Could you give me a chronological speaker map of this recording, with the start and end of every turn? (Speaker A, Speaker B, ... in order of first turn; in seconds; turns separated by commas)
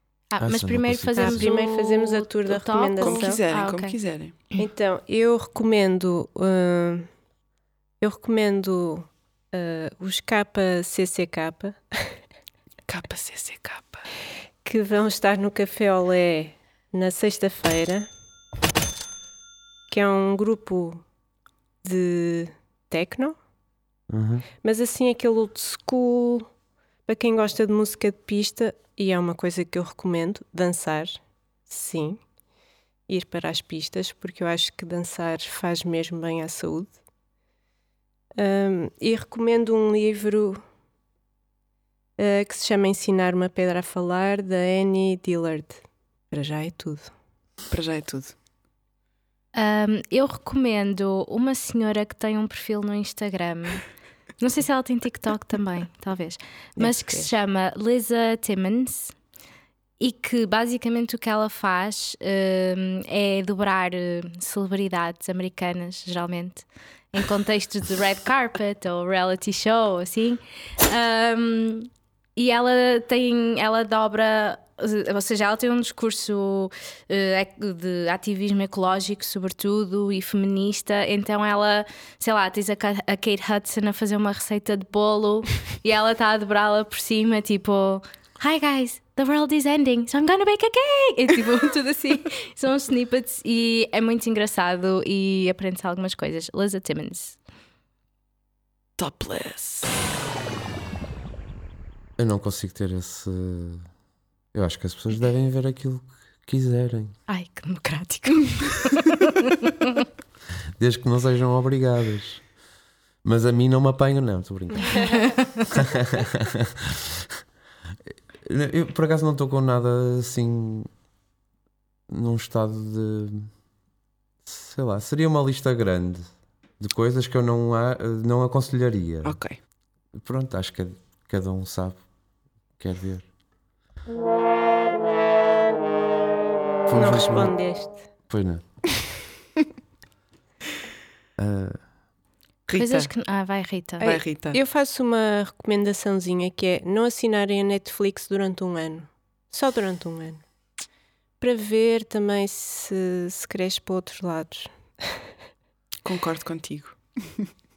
Speaker A: 0.3-4.0, Speaker B: 0.4-1.5, Speaker C: 1.2-3.4, Speaker D: 3.0-4.4, Speaker C: 4.6-7.1, Speaker C: 8.0-12.1, Speaker D: 12.9-14.1, Speaker C: 14.6-18.1, Speaker C: 19.9-21.0, Speaker C: 21.8-23.4, Speaker B: 24.1-24.5, Speaker C: 24.6-26.5, Speaker C: 27.1-32.2, Speaker C: 33.1-37.0, Speaker C: 38.4-40.6, Speaker C: 42.2-47.1, Speaker D: 47.7-48.4, Speaker A: 49.5-59.2, Speaker C: 56.8-57.3, Speaker A: 60.0-97.4, Speaker D: 99.0-99.9, Speaker B: 102.2-103.9, Speaker B: 104.5-107.2, Speaker A: 107.3-109.3, Speaker B: 110.8-112.5, Speaker B: 113.2-117.3, Speaker C: 114.9-115.2, Speaker A: 115.0-115.7, Speaker B: 118.5-120.9, Speaker B: 122.1-123.5, Speaker B: 124.5-129.4, Speaker D: 129.2-129.6, Speaker B: 130.1-132.0, Speaker B: 132.8-133.3, Speaker B: 136.9-137.6, Speaker C: 136.9-138.1, Speaker B: 138.3-138.7, Speaker B: 141.4-141.8, Speaker D: 142.7-143.1, Speaker A: 142.8-144.2, Speaker D: 144.0-144.6, Speaker C: 144.5-150.4, Speaker C: 151.4-155.2, Speaker D: 156.0-157.5